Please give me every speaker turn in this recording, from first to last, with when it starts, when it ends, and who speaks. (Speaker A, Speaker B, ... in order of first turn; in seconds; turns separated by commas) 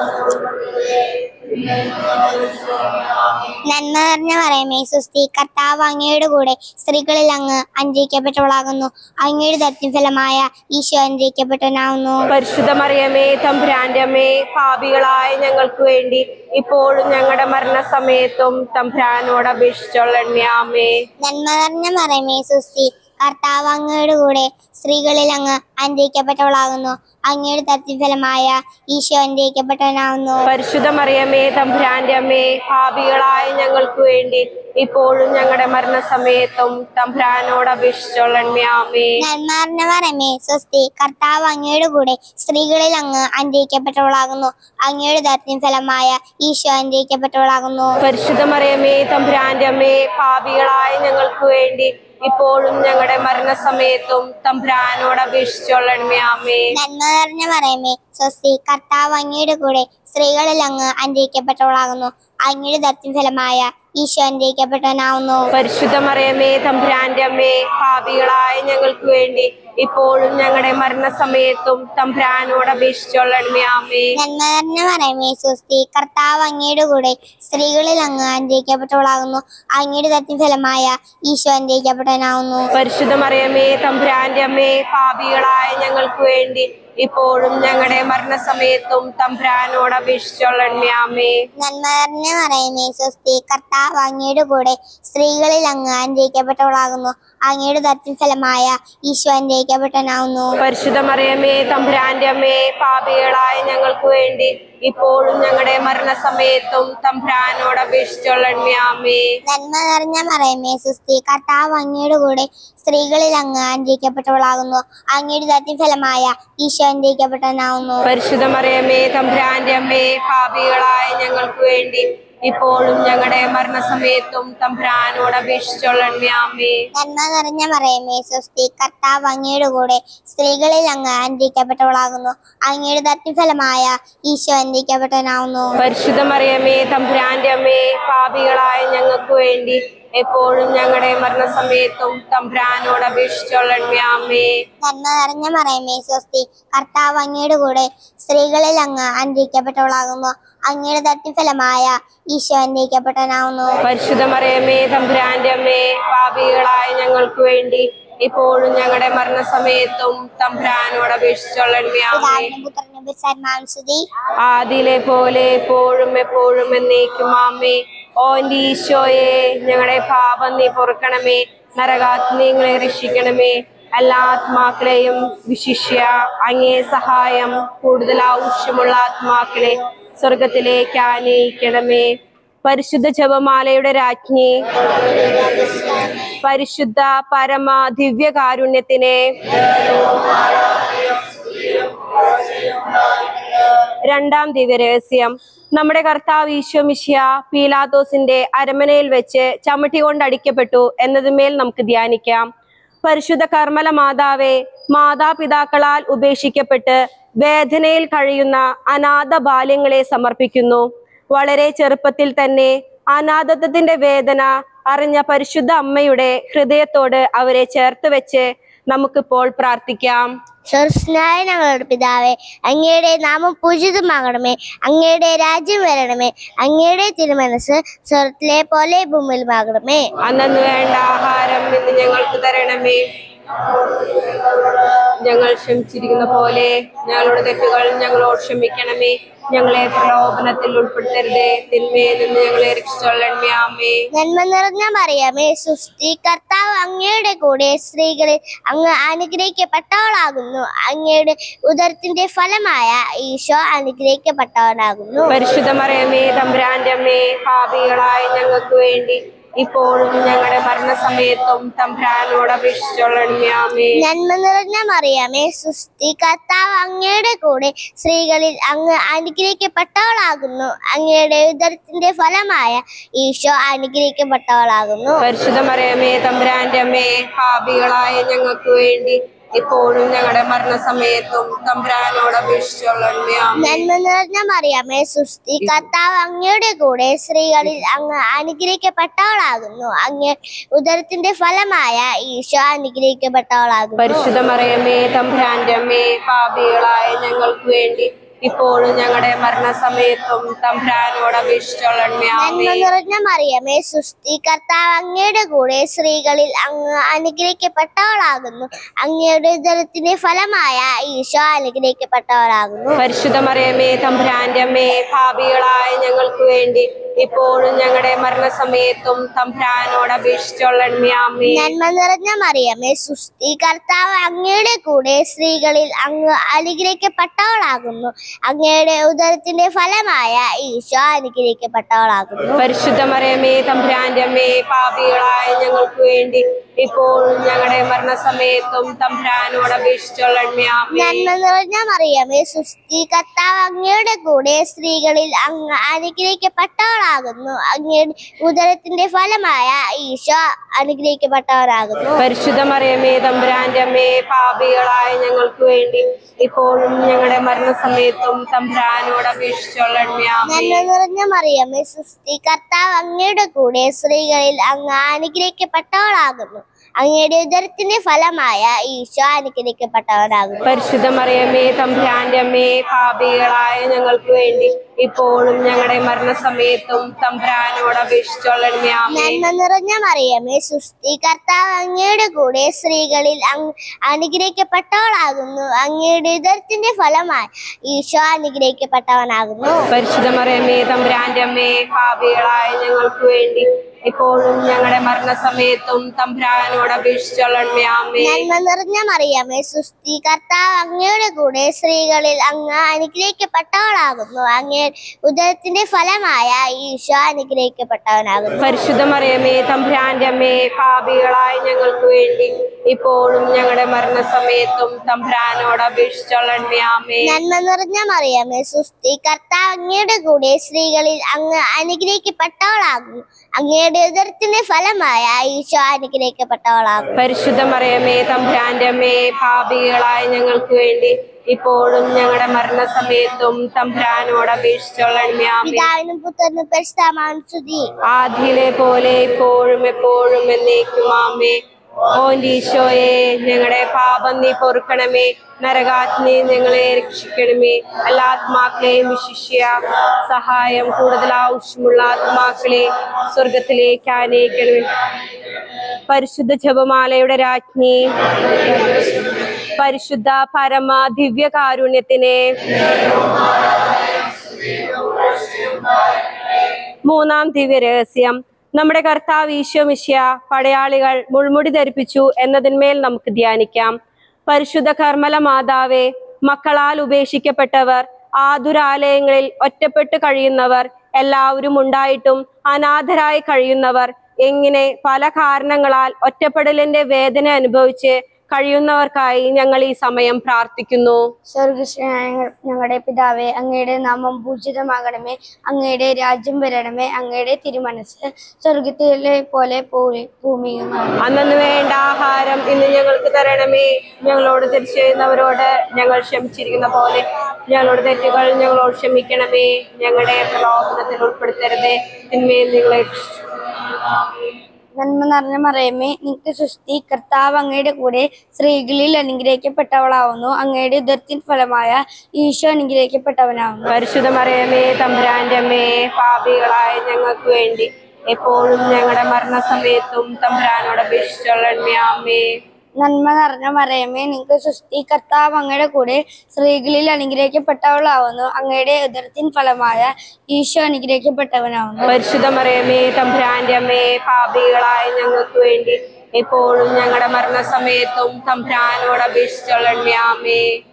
Speaker A: 3.6-12.2, Speaker B: 12.3-21.0, Speaker A: 21.2-30.4, Speaker B: 30.5-39.2, Speaker A: 39.2-47.9, Speaker B: 48.0-56.7, Speaker A: 56.8-65.5, Speaker B: 65.5-74.2, Speaker A: 74.2-82.7, Speaker B: 82.8-91.5, Speaker A: 91.6-100.5, Speaker B: 100.6-109.4, Speaker A: 109.5-118.0, Speaker B: 118.1-126.9, Speaker A: 127.0-135.8, Speaker B: 135.8-144.6, Speaker A: 144.8-153.8, Speaker B: 153.8-162.5, Speaker A: 162.1-164.1, Speaker B: 164.4-182.1, Speaker B: 182.7-184.7, Speaker B: 186.2-189.6, Speaker B: 194.1-202.5, Speaker B: 203.0-220.3, Speaker C: 220.7-230.1, Speaker B: 230.2-233.0, Speaker B: 235.2-244.1, Speaker C: 244.1-255.3, Speaker B: 255.3-264.0, Speaker C: 264.0-275.2, Speaker B: 275.2-283.8, Speaker C: 283.6-294.3, Speaker B: 294.0-302.9, Speaker C: 302.4-313.0, Speaker B: 313.0-321.7, Speaker C: 321.5-332.6, Speaker B: 332.6-341.3, Speaker C: 340.9-352.2, Speaker B: 352.2-360.8, Speaker C: 360.5-370.6, Speaker B: 370.7-379.4, Speaker C: 379.1-389.9, Speaker B: 389.9-398.4, Speaker C: 398.2-408.7, Speaker B: 408.6-417.3, Speaker C: 417.3-427.1, Speaker B: 427.2-435.9, Speaker C: 435.6-437.9, Speaker B: 438.1-441.6, Speaker B: 442.1-454.9, Speaker B: 456.1-458.1, Speaker B: 459.8-462.5, Speaker B: 467.1-473.9, Speaker B: 474.5-491.2, Speaker D: 491.5-501.2, Speaker B: 501.2-513.4, Speaker D: 515.0-524.0, Speaker B: 523.9-532.6, Speaker D: 533.0-542.2, Speaker B: 542.1-550.8